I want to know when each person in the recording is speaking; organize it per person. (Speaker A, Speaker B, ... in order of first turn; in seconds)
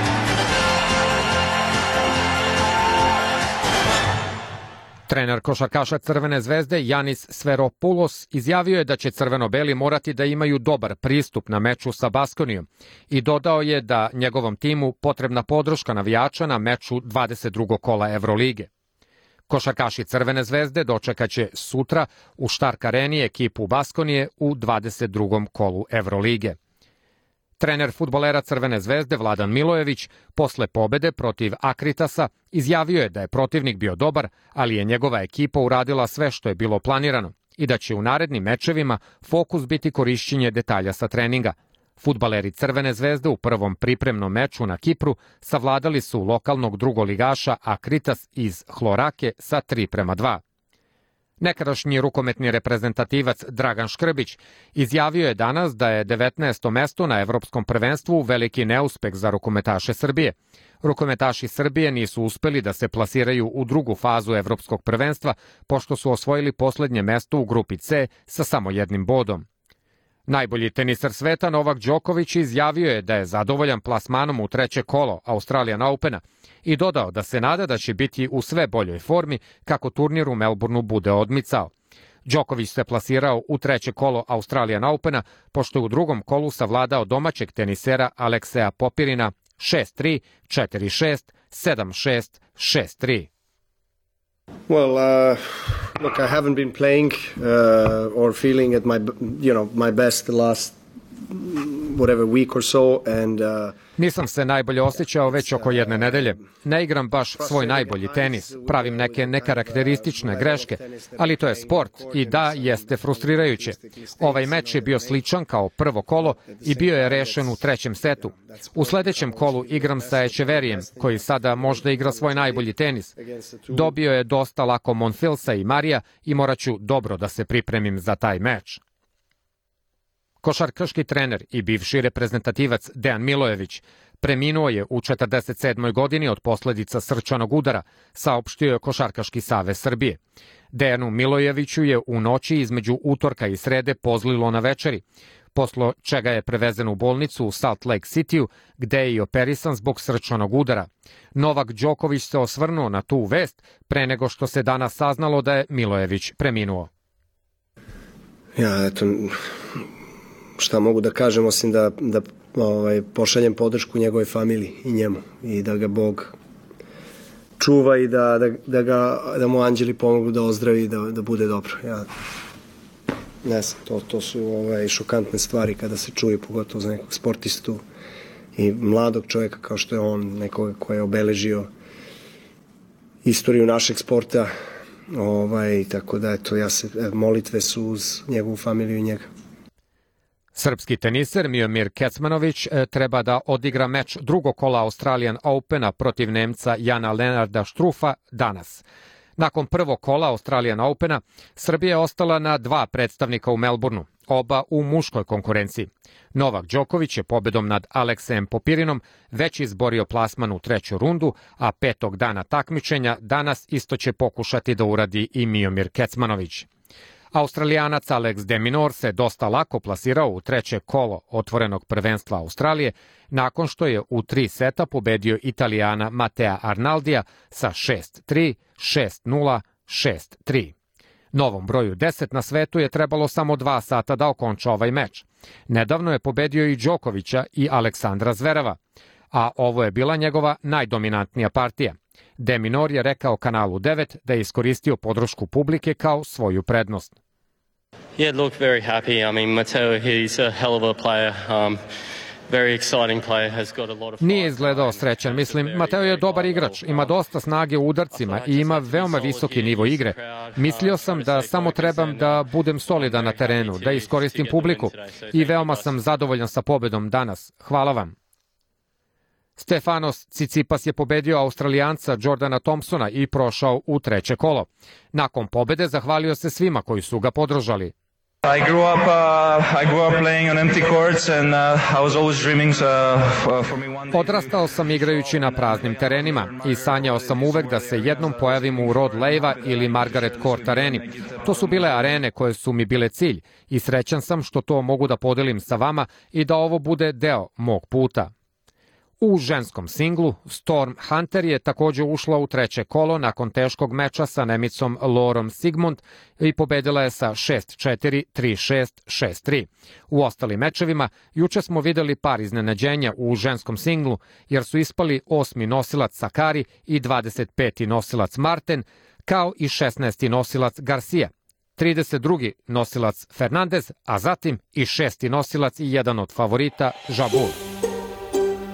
Speaker A: 5.1-18.7, 19.5-26.6, 27.6-50.4, 51.4-69.5, 70.3-81.7, 82.2-93.3, 104.0-123.1, 123.7-128.8, 130.4-140.2, 140.7-145.0, 145.5-156.9, 190.5-198.8, 199.4-216.7, 217.3-230.7, 231.3-238.8, 239.3-247.1, 254.2-268.1, 269.6-277.9, 284.1-298.3, 299.2-327.6
Speaker B: 94.7-103.8, 105.1-106.5, 107.4-115.2, 116.2-117.6, 118.2-123.9, 158.6-159.4, 160.6-166.3, 167.6-172.1, 173.4-177.8, 178.5-181.7, 183.2-184.5, 185.1-189.2
Speaker C: 248.2-251.8, 252.5-257.1, 258.1-266.0
Speaker D: 278.4-292.2